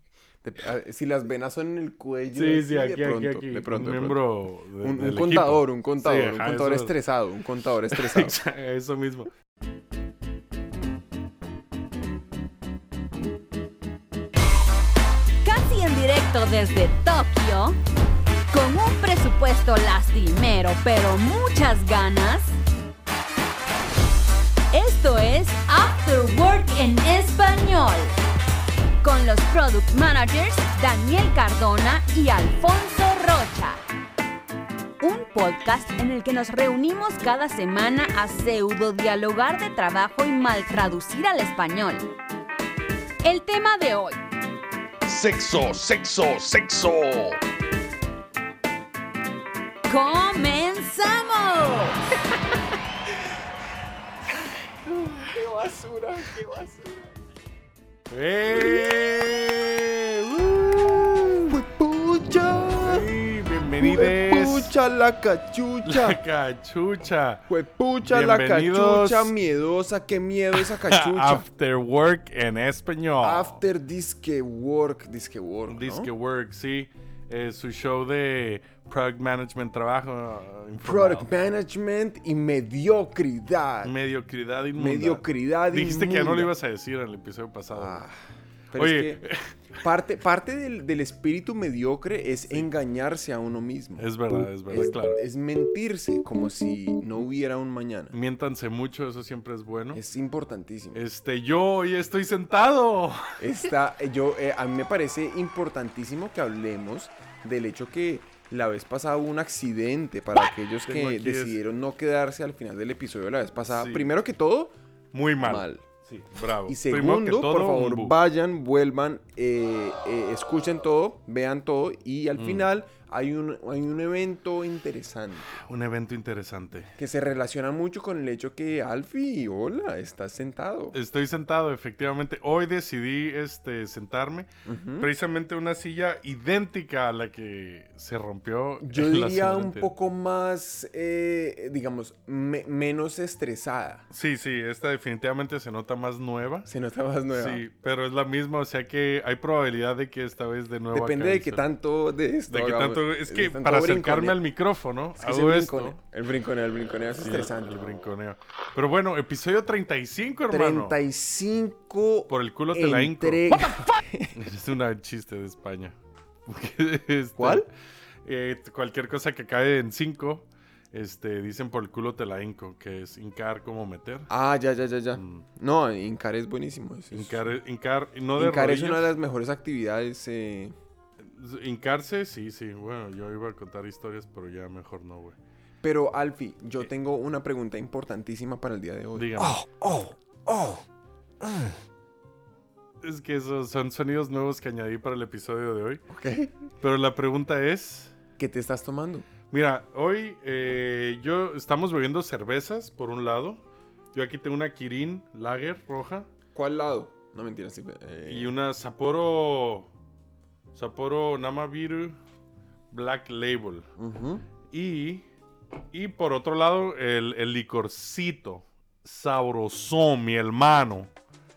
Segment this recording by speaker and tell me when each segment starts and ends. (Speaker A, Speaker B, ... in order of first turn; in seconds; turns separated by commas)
Speaker A: 0.4-4.2, Speaker B: 2.3-7.0, Speaker A: 4.8-8.4, Speaker B: 7.9-9.3, Speaker C: 15.4-17.8, Speaker C: 18.5-22.6, Speaker C: 24.7-28.2, Speaker C: 29.0-33.8, Speaker C: 35.0-42.0, Speaker C: 43.2-44.2, Speaker B: 45.0-47.4, Speaker C: 49.9-52.0, Speaker A: 54.9-57.1, Speaker B: 58.1-61.5, Speaker A: 58.5-58.9, Speaker A: 61.5-63.1, Speaker B: 62.8-64.8, Speaker A: 63.8-66.2, Speaker B: 65.9-67.5, Speaker A: 67.5-71.5, Speaker B: 68.0-69.3, Speaker B: 70.6-73.6, Speaker A: 73.2-76.1, Speaker B: 75.7-81.3, Speaker A: 80.8-84.0, Speaker B: 83.8-88.1, Speaker A: 84.8-86.5, Speaker A: 87.7-88.1, Speaker A: 88.7-89.2, Speaker B: 88.8-89.5, Speaker A: 89.8-94.1, Speaker B: 94.0-95.2, Speaker A: 94.7-98.1, Speaker B: 98.1-100.0, Speaker A: 99.9-101.0, Speaker B: 100.9-103.5, Speaker A: 103.4-114.7, Speaker B: 110.9-111.6, Speaker B: 113.7-114.1, Speaker B: 115.1-118.2, Speaker A: 115.4-115.8, Speaker A: 116.7-125.6, Speaker B: 122.4-122.7, Speaker B: 125.5-126.9, Speaker A: 127.0-131.0, Speaker B: 130.9-134.5, Speaker A: 134.7-135.1, Speaker B: 135.0-139.9, Speaker A: 138.8-144.1, Speaker B: 144.1-146.7, Speaker A: 146.7-147.6, Speaker B: 147.3-151.6, Speaker A: 150.9-154.4, Speaker B: 152.5-156.0, Speaker A: 155.2-157.7, Speaker B: 157.2-161.0, Speaker A: 160.5-164.3, Speaker B: 162.3-163.5, Speaker B: 164.3-167.7, Speaker A: 167.4-167.7, Speaker B: 168.2-174.3, Speaker A: 174.3-177.5, Speaker B: 175.1-175.4, Speaker B: 177.1-179.1, Speaker A: 178.4-180.7, Speaker B: 181.2-185.4, Speaker A: 185.8-190.8, Speaker B: 189.2-189.6, Speaker A: 191.4-191.7, Speaker B: 193.0-196.0, Speaker A: 196.1-196.6, Speaker B: 196.8-198.1, Speaker A: 198.4-199.3, Speaker B: 199.5-203.6, Speaker B: 204.1-206.3, Speaker A: 206.5-208.5, Speaker B: 208.3-209.9, Speaker B: 210.7-212.2, Speaker B: 212.9-213.9, Speaker A: 214.0-214.4, Speaker B: 214.7-215.3, Speaker B: 215.9-221.1